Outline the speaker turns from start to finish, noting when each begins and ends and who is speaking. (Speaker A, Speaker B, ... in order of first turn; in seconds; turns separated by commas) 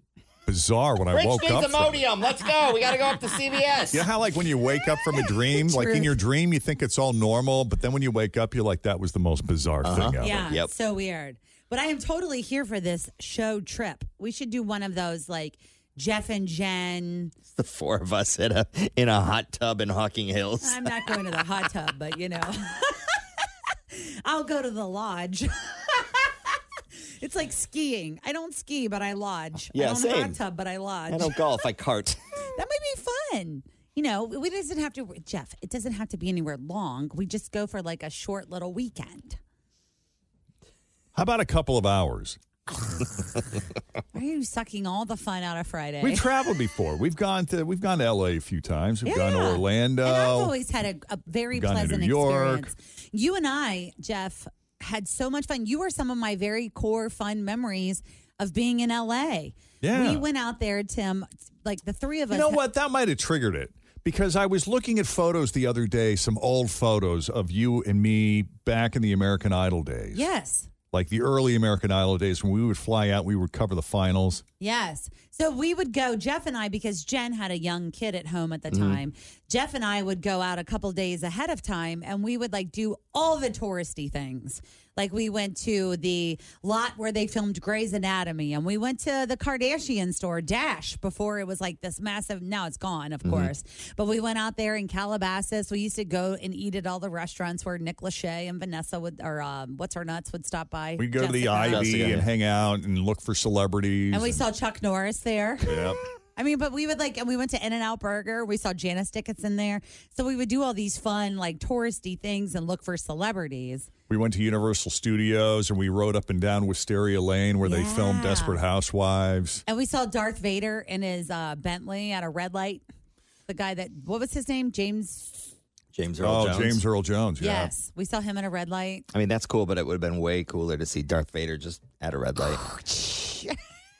Speaker A: 0.5-2.1, Speaker B: 1.1-4.0, Speaker A: 3.9-10.5, Speaker C: 5.5-6.1, Speaker B: 9.8-10.7, Speaker C: 10.2-17.3, Speaker B: 17.5-20.9, Speaker C: 20.6-23.2, Speaker C: 23.9-26.3, Speaker C: 27.2-31.4, Speaker B: 29.7-30.4, Speaker B: 31.1-32.2, Speaker C: 32.5-39.4, Speaker A: 41.1-42.4, Speaker C: 44.1-46.2, Speaker A: 46.0-50.5, Speaker C: 49.0-62.6, Speaker A: 51.5-52.7, Speaker A: 59.8-60.2, Speaker A: 62.3-70.2, Speaker C: 70.1-70.7, Speaker A: 70.9-74.4, Speaker C: 74.6-102.1, Speaker B: 78.7-79.0, Speaker B: 93.2-93.5, Speaker A: 101.0-104.4, Speaker B: 101.6-102.3, Speaker C: 104.1-105.8, Speaker A: 105.6-106.0, Speaker C: 106.3-113.9, Speaker A: 114.1-119.6, Speaker C: 117.6-118.6, Speaker C: 119.7-122.8, Speaker C: 123.5-125.5, Speaker B: 125.9-126.8, Speaker A: 126.2-127.7, Speaker C: 127.4-129.1, Speaker B: 129.1-132.6, Speaker C: 132.6-133.6